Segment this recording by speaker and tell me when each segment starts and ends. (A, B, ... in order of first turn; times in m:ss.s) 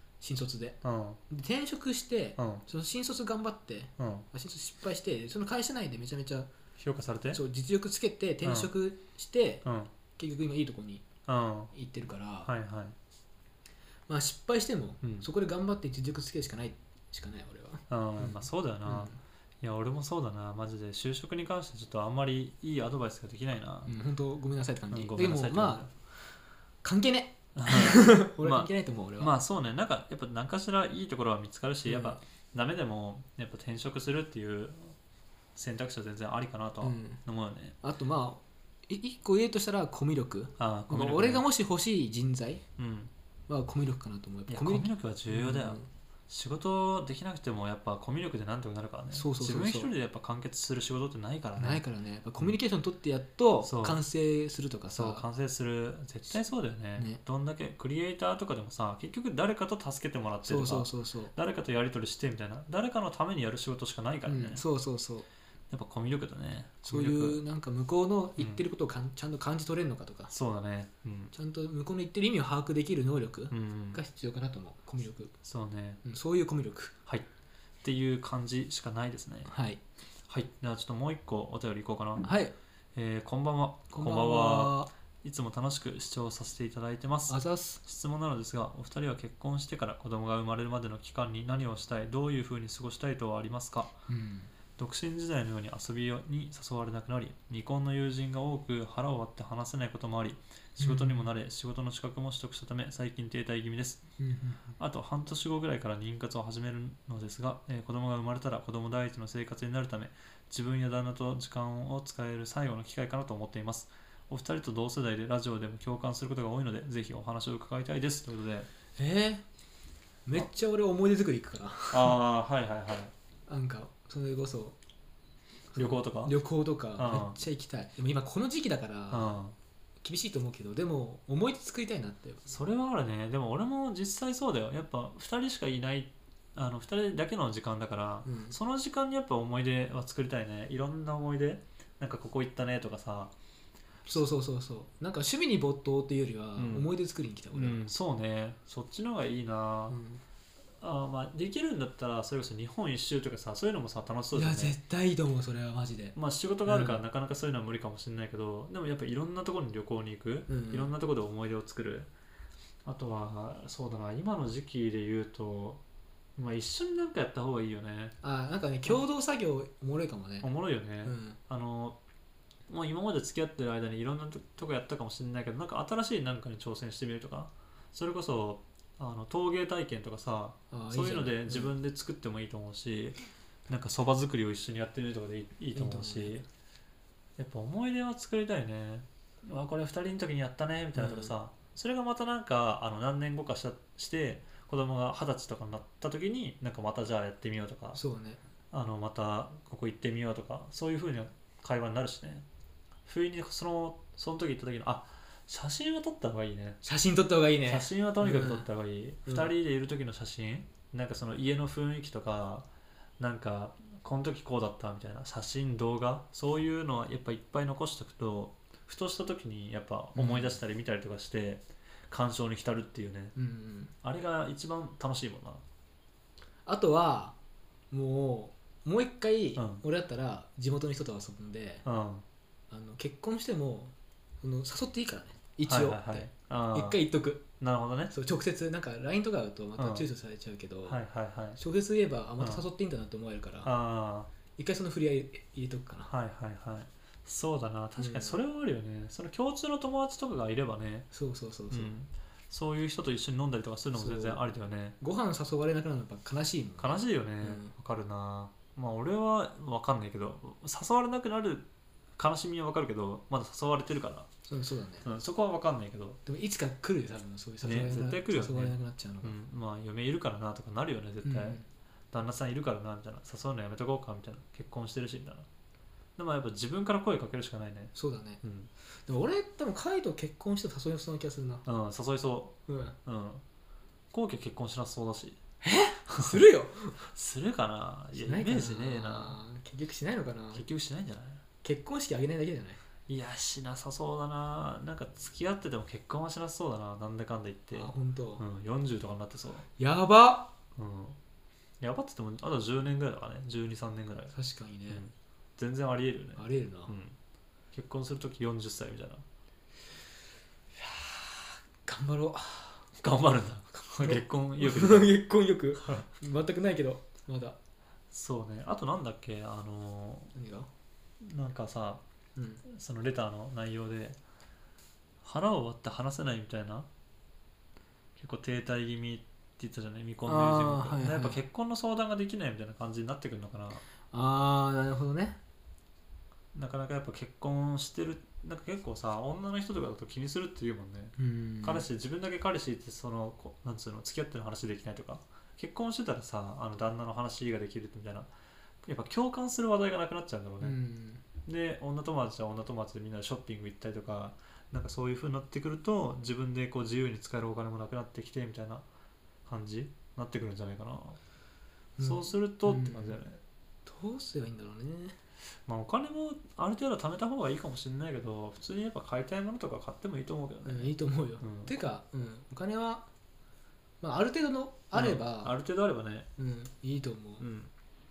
0:00.2-0:00.8 A
0:00.8-0:01.2 B
0:01.3-0:06.5 A
0:02.4-0:02.6 B
0:04.0-0:04.3 B
0:06.8-0:07.4 B
0:07.3-0:11.0 A
0:08.4-0:08.7 B
0:09.6-0:09.9 B
0:11.3-0:11.7 B
0:11.7-0:12.5 A
0:12.4-0:13.0 B
0:14.1-0:19.2 A
0:17.9-0:23.9 B
0:23.9-0:26.2 A
0:24.9-0:25.9 B
0:26.8-0:29.3 A
0:27.6-0:35.0 B
0:31.9-0:32.2 A
0:35.6-0:37.8 B
0:36.8-0:37.2 A
0:37.8-0:42.6 A
0:40.6-0:41.4 B
0:42.8-0:43.1 B
0:43.5-0:45.9 A
0:44.5-0:51.8 B
0:49.1-0:49.9 A
0:51.6-0:55.2 A
0:53.6-0:54.0 B
0:54.9-1:04.6 B
0:57.0-0:57.2 A
1:00.4-1:01.3 A
1:04.2-1:05.3 A
1:05.7-1:07.4 B
1:06.8-1:10.3 A
1:08.4-1:08.6 B
1:10.3-1:11.3 B
1:11.3-1:15.3 A
1:13.5-1:14.0 B
1:15.4-1:16.0 B
1:16.0-1:16.9 A
1:17.8-1:19.5 B
1:19.4-1:19.8 A
1:20.3-1:22.3 B
1:22.2-1:22.6 A
1:22.9-1:33.9 B
1:23.9-1:24.9 A
1:27.3-1:27.8 A
1:34.1-1:34.5 A
1:34.8-1:44.0 B
1:40.8-1:41.3 A
1:44.2-1:44.7 A
1:44.8-1:58.7 B
1:59.0-1:59.4 A
2:00.2-2:02.2 A
2:01.9-2:03.1 B
2:03.5-2:04.8 A
2:05.7-2:09.4 A
2:05.8-2:06.4 B
2:07.0-2:07.4 B
2:09.1-2:09.6 B
2:10.0-2:12.5 A
2:12.5-2:23.3 B
2:18.2-2:18.6 A
2:24.1-2:27.9 A
2:26.6-2:26.9 B
2:27.5-2:30.0 B
2:29.9-2:30.2 A
2:30.8-2:34.8 B
2:34.3-2:37.0 A
2:36.1-2:42.1 B
2:40.5-2:40.9 A
2:42.8-2:45.8 B
2:46.4-2:48.2 B
2:48.2-2:50.5 A
2:50.4-2:52.0 B
2:51.0-2:51.4 A
2:52.7-3:03.2 B
3:00.7-3:01.7 A
3:03.7-3:06.5 B
3:05.7-3:06.3 A
3:07.4-3:18.0 B
3:11.0-3:11.4 A
3:18.0-3:18.4 A
3:18.7-3:22.4 B
3:23.1-3:26.8 B
3:26.8-3:28.7 A
3:27.7-3:32.6 B
3:29.2-3:29.5 A
3:33.2-3:43.4 B
3:40.1-3:40.6 A
3:43.4-3:43.9 A
3:44.0-3:45.6 B
3:46.6-3:47.4 A
3:47.9-3:51.8 A
3:49.6-3:49.8 B
3:51.8-3:52.2 B
3:52.7-3:57.5 A
3:55.6-3:57.0 B
3:57.6-3:58.1 B
3:58.1-4:01.0 A
3:59.8-4:00.1 B
4:00.9-4:01.6 B
4:01.6-4:03.7 A
4:02.4-4:02.6 B
4:03.6-4:04.3 B
4:04.6-4:06.1 A
4:06.1-4:11.1 B
4:08.0-4:08.4 A
4:11.1-4:11.9 A
4:11.7-4:15.0 B
4:13.9-4:17.7 A
4:16.8-4:21.6 B
4:22.2-4:24.3 B
4:24.5-4:25.1 A
4:25.0-4:26.2 B
4:26.2-4:29.4 A
4:27.6-4:31.6 B
4:31.2-4:31.6 A
4:32.1-4:35.5 B
4:36.2-4:38.7 B
4:38.0-4:38.4 A
4:39.1-4:41.6 A
4:41.6-4:43.4 B
4:42.7-4:43.0 A
4:44.1-4:45.4 B
4:45.6-4:47.1 A
4:47.0-4:49.4 B
4:48.1-4:50.6 A
4:50.5-4:51.4 B
4:51.6-4:52.8 A
4:53.1-4:59.7 B
4:57.7-4:58.4 A
4:59.8-5:00.5 A
5:00.8-5:01.2 B
5:01.8-5:04.3 B
5:04.3-5:05.0 A
5:04.9-5:07.2 B
5:06.4-5:07.0 A
5:07.7-5:09.2 B
5:10.8-5:12.9 A
5:13.0-5:15.2 B
5:13.9-5:17.6 A
5:15.8-5:16.1 B
5:18.1-5:20.4 B
5:20.4-5:20.7 A
5:21.2-5:22.0 B
5:22.4-5:22.6 A
5:22.6-5:24.2 B
5:25.2-5:26.9 B
5:28.2-5:33.8 B
5:30.2-5:31.4 A
5:34.1-5:35.4 A
5:36.5-5:48.3 B
5:41.2-5:41.9 A
5:48.8-5:50.8 B
5:50.6-5:51.2 A
5:51.4-5:58.8 B
5:59.5-6:01.2 B
6:02.0-6:03.2 A
6:02.0-6:03.4 B
6:03.8-6:05.2 A
6:05.7-6:11.7 B
6:10.6-6:13.1 A
6:14.0-6:15.5 A
6:14.9-6:16.3 B
6:16.4-6:17.4 A
6:17.4-6:17.7 B